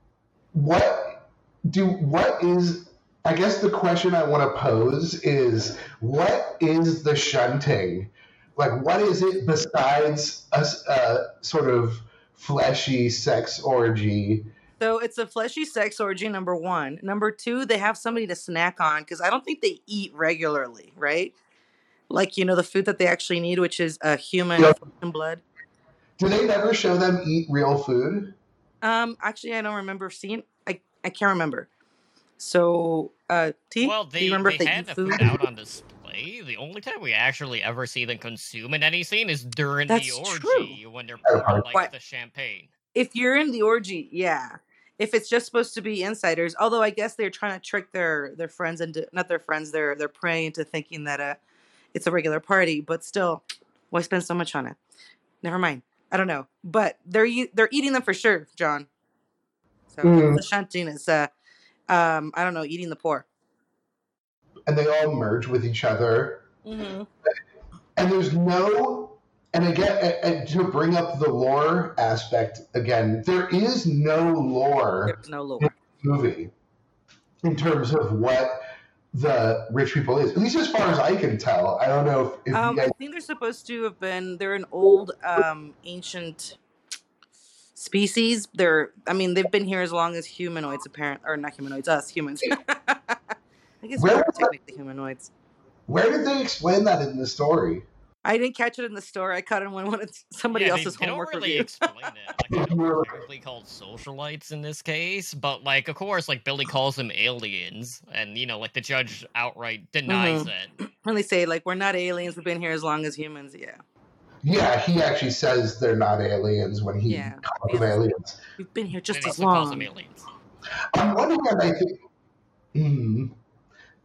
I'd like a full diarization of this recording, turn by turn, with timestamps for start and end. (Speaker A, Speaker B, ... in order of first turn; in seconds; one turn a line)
Speaker A: 0.5-14.5
Speaker B: 14.8-21.3
Speaker B: 22.1-25.4
Speaker A: 26.2-28.4
Speaker B: 28.8-31.7
Speaker B: 32.4-35.3
Speaker C: 33.8-42.7
Speaker B: 39.9-40.8
Speaker A: 41.3-41.7
Speaker B: 42.9-51.4
Speaker B: 51.9-54.8
Speaker B: 55.4-58.9
Speaker B: 59.9-61.3
Speaker A: 60.0-60.4
Speaker B: 61.9-63.3
Speaker A: 64.7-66.5
Speaker B: 66.6-67.1
Speaker A: 68.0-76.5
Speaker B: 75.0-75.7
Speaker A: 77.4-82.9
Speaker B: 82.5-86.6
Speaker B: 87.8-93.2
Speaker B: 93.8-95.3
Speaker A: 94.0-94.5
Speaker A: 95.9-97.9
Speaker B: 98.2-101.7
Speaker C: 100.5-110.7
Speaker A: 102.5-103.1
Speaker B: 110.1-113.8
Speaker A: 114.4-118.4
Speaker B: 117.1-118.0
Speaker B: 118.6-119.9
Speaker C: 119.1-120.3
Speaker A: 120.9-122.0
Speaker A: 122.7-123.4